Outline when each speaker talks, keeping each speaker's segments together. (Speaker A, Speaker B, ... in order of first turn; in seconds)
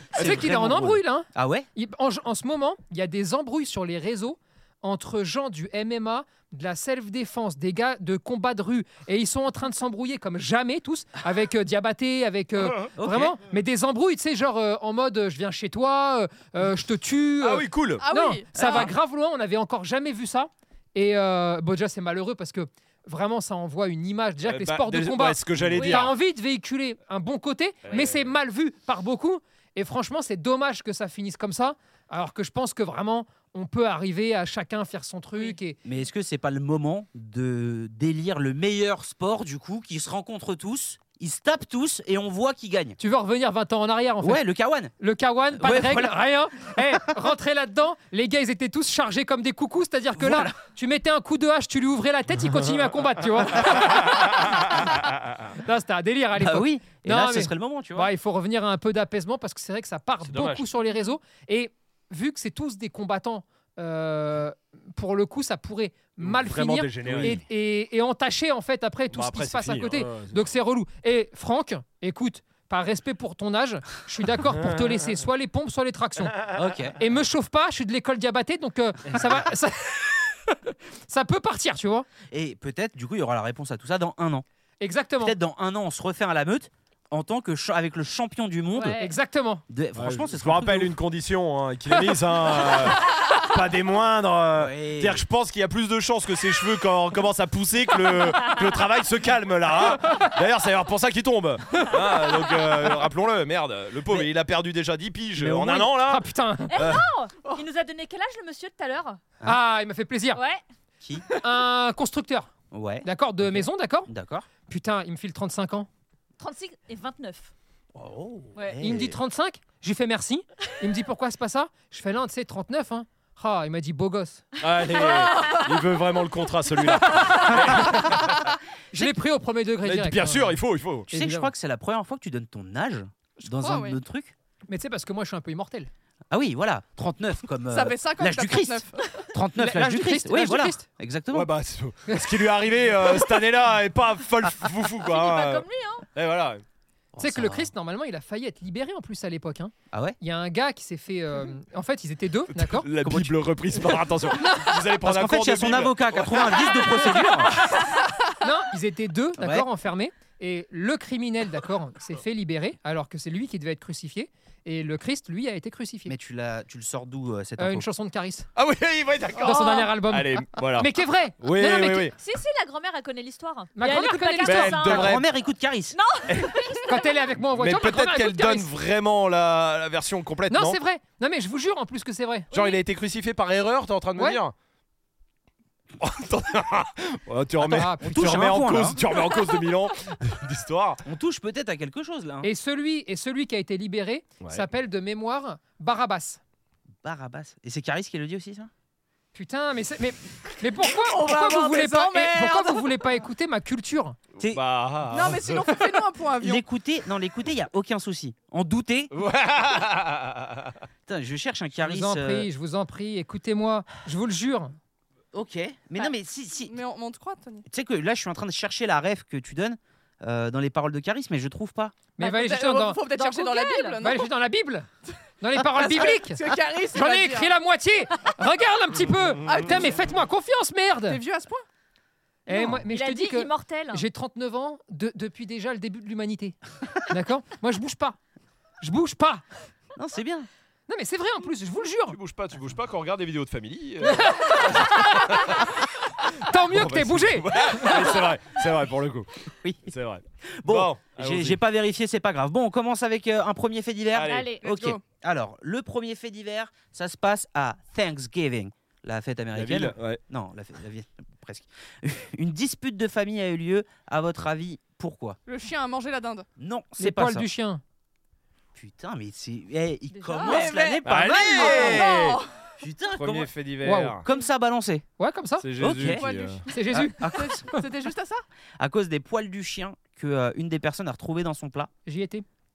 Speaker A: 0.1-1.7, 13.0-13.4, 18.6-18.9, 35.8-43.0, 44.2-44.9, 45.5-46.2, 50.2-50.6, 56.4-58.1, 67.0-67.4, 76.5-77.0, 82.3-84.5, 85.2-89.0, 89.7-90.9, 94.5-95.2, 105.4-105.8, 111.0-111.3, 112.7-114.5, 118.0-119.2, 131.1-134.3, 136.3-141.5, 147.1-147.7, 149.9-150.2, 153.0-153.4, 155.0-157.6, 159.4-159.7, 166.1-167.9, 174.8-176.0, 187.9-189.0, 191.1-192.5, 197.0-198.7, 206.4-209.1, 211.1-212.5, 215.3-216.8, 217.7-222.0, 240.0-240.5, 249.6-249.9, 250.5-265.4, 266.6-267.5, 268.8-272.1, 272.8-273.5, 274.2-275.1, 275.8-276.3, 277.0-277.7, 278.8-281.9
Speaker B: 0.2-35.8, 43.0-44.5, 45.0-54.9, 55.6-76.4, 77.0-82.1, 84.8-85.4, 89.0-89.6, 100.0-100.3, 105.4-106.9, 109.4-110.4, 111.4-112.5, 113.0-114.1, 114.7-115.9, 118.8-124.5, 127.1-128.1, 128.9-130.6, 131.1-131.5, 134.7-135.9, 139.6-140.9, 142.1-142.4, 147.2-152.9, 154.4-154.7, 158.4-166.1, 167.6-168.5, 169.4-172.1, 173.8-174.9, 176.9-178.7, 180.5-182.5, 187.6-188.5, 192.4-196.4, 199.3-204.2, 211.8-214.8, 222.2-223.0, 224.0-224.9, 225.4-231.2, 232.5-238.2, 238.8-239.4, 240.9-242.2, 244.0-245.5, 246.4-248.1, 267.0-267.8, 273.8-274.2, 275.2-275.7, 276.7-277.7, 282.1-282.4
Speaker C: 17.4-18.1, 24.4-26.2, 27.9-28.3, 53.6-55.5, 60.2-60.7, 66.2-67.4, 69.1-70.5, 74.5-75.0, 76.3-76.6, 90.0-107.0, 124.6-128.6, 129.8-131.2, 141.3-146.6, 152.5-156.5, 168.6-172.2, 174.4-175.2, 176.3-176.6, 177.5-180.8, 182.5-184.5, 186.0-191.0, 194.4-194.7, 204.5-205.9, 209.1-210.8, 242.1-245.8, 246.5-249.3, 249.9-251.6, 254.1-254.5, 259.6-260.2, 271.0-272.4, 273.2-274.3, 275.6-276.6
Speaker D: 18.0-18.9, 133.5-134.0, 137.7-139.3, 200.9-203.0, 205.1-206.6, 216.7-217.7, 222.2-224.3, 225.7-227.5, 229.5-230.1, 231.1-231.7, 254.6-255.0, 265.5-266.5, 270.4-272.7, 276.1-276.7, 277.2-278.4
Speaker E: 25.7-26.1, 88.8-89.1, 106.7-109.2, 110.3-110.6, 116.4-117.5, 118.6-118.8, 125.0-125.6, 144.9-146.1, 169.4-169.9, 171.6-175.2, 175.9-177.2, 182.5-182.8, 223.1-224.0, 232.5-234.0, 254.2-254.6, 270.1-270.8